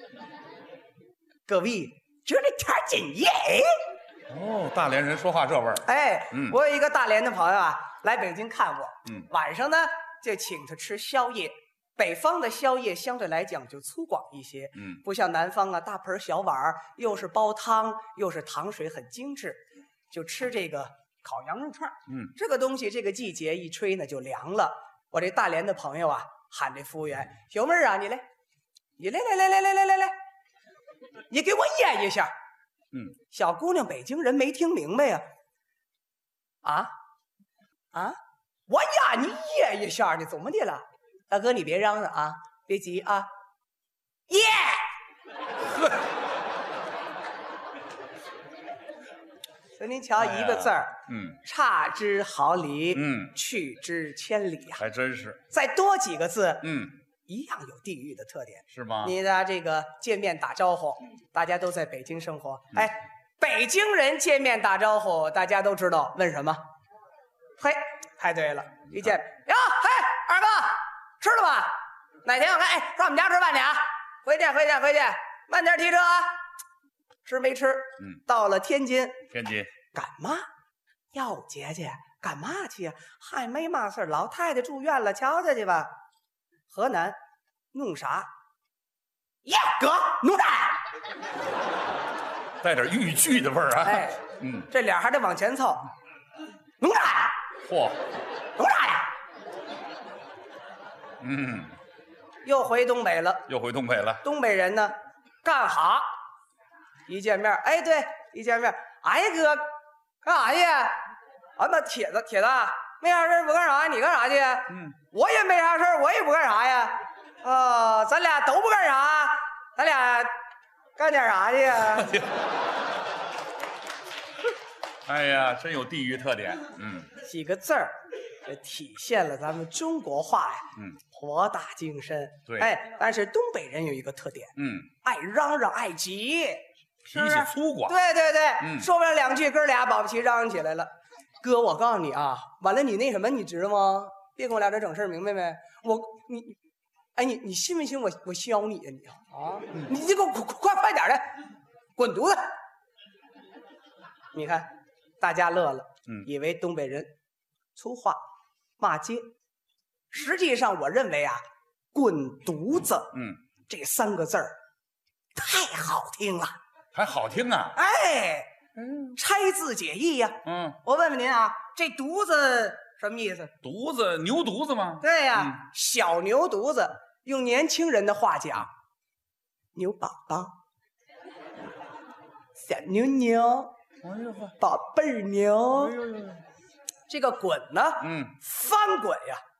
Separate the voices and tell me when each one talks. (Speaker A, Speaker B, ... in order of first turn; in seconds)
Speaker A: 1.5-3.8, 5.8-19.6, 20.1-28.2, 29.0-30.1, 31.3-32.3, 33.3-35.2, 36.6-36.9, 38.7-43.3, 44.3-44.9, 49.8-54.8, 55.5-56.7, 57.3-66.6, 67.6-76.3, 77.2-79.2, 79.9-80.5, 81.1-85.9, 86.7-87.2, 87.7-88.3, 89.4-90.8, 93.8-95.9, 96.8-97.3, 98.6-99.1, 102.4-103.5, 104.2-106.0, 107.1-109.6, 110.2-111.0, 111.6-120.3, 121.0-122.2, 127.2-146.6, 147.2-151.3, 152.0-152.5, 154.3-154.7, 155.2-157.1, 157.7-158.2, 158.8-159.2, 160.1-163.1, 163.7-164.5, 165.3-166.6, 167.7-168.5, 169.1-173.5, 175.0-178.7, 179.7-180.5, 182.6-183.7, 184.6-186.0, 187.1-189.4
Speaker B: 4.3-6.6, 22.1-22.3, 50.2-51.4, 52.9-53.3, 54.8-55.4, 56.6-56.9, 58.7-59.1, 79.3-79.7, 92.6-94.7, 97.6-98.0, 101.2-101.7, 103.5-104.2, 125.0-127.1, 134.6-134.9, 137.0-137.9, 138.6-138.9, 163.1-163.4, 166.9-167.8, 168.8-169.1, 170.4-170.8, 173.6-175.5, 184.0-184.5, 185.8-186.4, 188.0-188.4